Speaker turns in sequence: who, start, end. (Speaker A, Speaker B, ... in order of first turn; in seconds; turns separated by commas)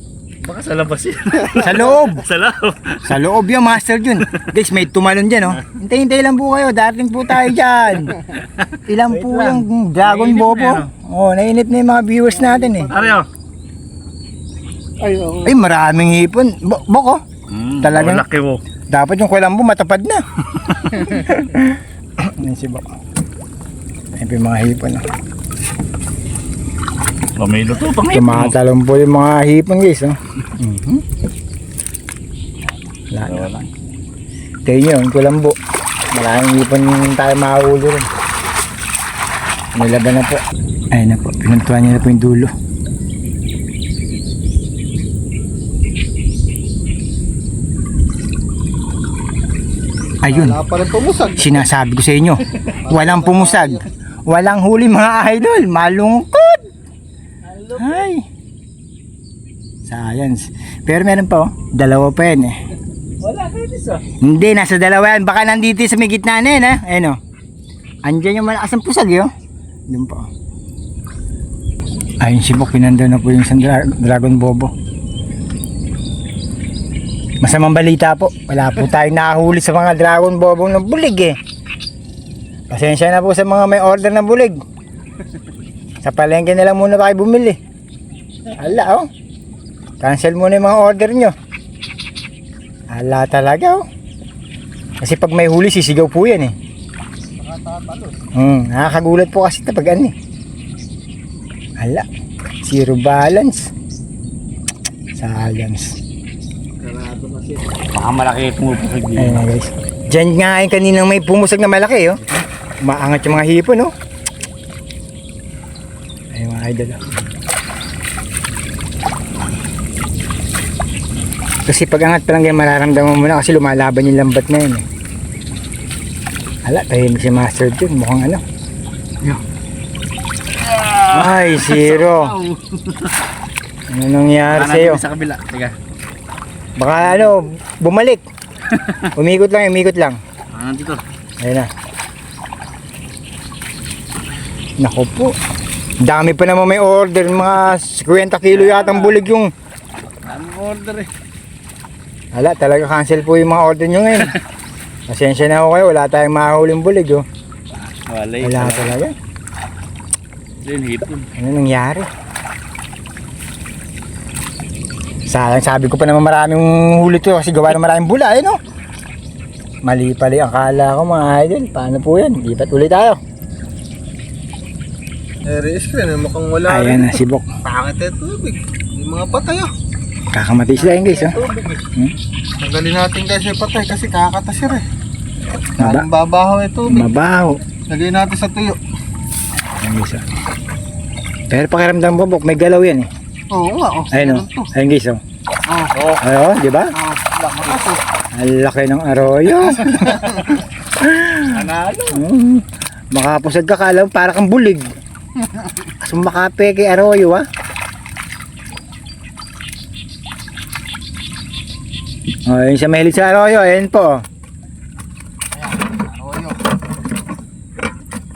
Speaker A: 0.4-3.2, Speaker B: 1.6-2.3, Speaker B: 3.0-8.2, Speaker A: 8.1-10.9, Speaker B: 8.8-12.9, Speaker C: 12.3-13.2, Speaker A: 12.9-13.3, Speaker C: 15.0-15.6, Speaker B: 15.4-17.2, Speaker A: 17.5-18.6, Speaker B: 17.8-18.3, Speaker B: 18.9-22.9, Speaker B: 24.2-25.1, Speaker A: 27.4-28.5, Speaker B: 28.1-31.0, Speaker B: 33.1-33.5, Speaker A: 33.2-33.7, Speaker B: 34.7-35.6, Speaker B: 36.1-38.1, Speaker B: 39.7-42.5, Speaker B: 50.2-50.6, Speaker C: 50.3-51.6, Speaker B: 51.4-56.7, Speaker C: 52.8-53.9, Speaker A: 57.5-58.1, Speaker B: 57.8-58.3, Speaker B: 59.9-62.6, Speaker A: 63.2-64.0, Speaker B: 64.2-67.2, Speaker B: 68.0-69.3, Speaker B: 69.9-70.3, Speaker B: 72.2-74.7, Speaker B: 77.4-81.4, Speaker B: 82.7-84.6, Speaker B: 86.0-87.6, Speaker B: 88.6-89.1, Speaker B: 90.0-91.3, Speaker B: 92.9-93.8, Speaker B: 95.0-96.5, Speaker C: 97.4-98.2, Speaker B: 98.3-100.1, Speaker B: 101.8-102.1, Speaker B: 102.6-103.7, Speaker B: 105.2-106.0, Speaker C: 106.8-107.6, Speaker A: 107.9-109.4, Speaker B: 109.2-112.2, Speaker B: 112.8-113.9, Speaker B: 116.3-117.0, Speaker B: 121.7-124.8, Speaker B: 126.7-128.4, Speaker A: 130.6-133.2, Speaker B: 131.1-132.3, Speaker B: 133.9-135.0, Speaker A: 134.5-135.8, Speaker B: 136.8-138.2, Speaker A: 137.0-137.3, Speaker A: 138.7-139.1, Speaker B: 139.1-140.2, Speaker A: 140.5-141.0, Speaker B: 141.4-141.7, Speaker B: 144.8-145.3, Speaker B: 146.0-149.5, Speaker A: 148.5-149.2, Speaker A: 150.2-151.1, Speaker B: 152.3-154.4, Speaker B: 155.1-157.2, Speaker A: 157.8-158.9, Speaker B: 158.4-159.2, Speaker A: 160.6-161.3, Speaker B: 161.4-162.1, Speaker B: 165.3-168.6, Speaker B: 169.8-173.2, Speaker C: 175.4-179.7, Speaker B: 176.7-177.5, Speaker B: 180.3-181.4, Speaker C: 182.6-184.8, Speaker C: 185.8-187.2, Speaker B: 185.8-186.1, Speaker B: 186.9-187.6, Speaker C: 187.9-188.8, Speaker B: 189.8-190.2, Speaker B: 191.5-193.1, Speaker C: 193.5-194.7, Speaker B: 194.1-195.2, Speaker C: 195.7-195.9, Speaker A: 195.9-196.2, Speaker B: 196.2-196.9, Speaker C: 196.9-198.1, Speaker B: 198.3-200.3, Speaker C: 199.8-200.6, Speaker B: 201.0-204.9, Speaker A: 201.5-202.2, Speaker C: 205.4-205.7, Speaker B: 206.0-207.4, Speaker B: 212.5-214.2, Speaker C: 215.5-216.7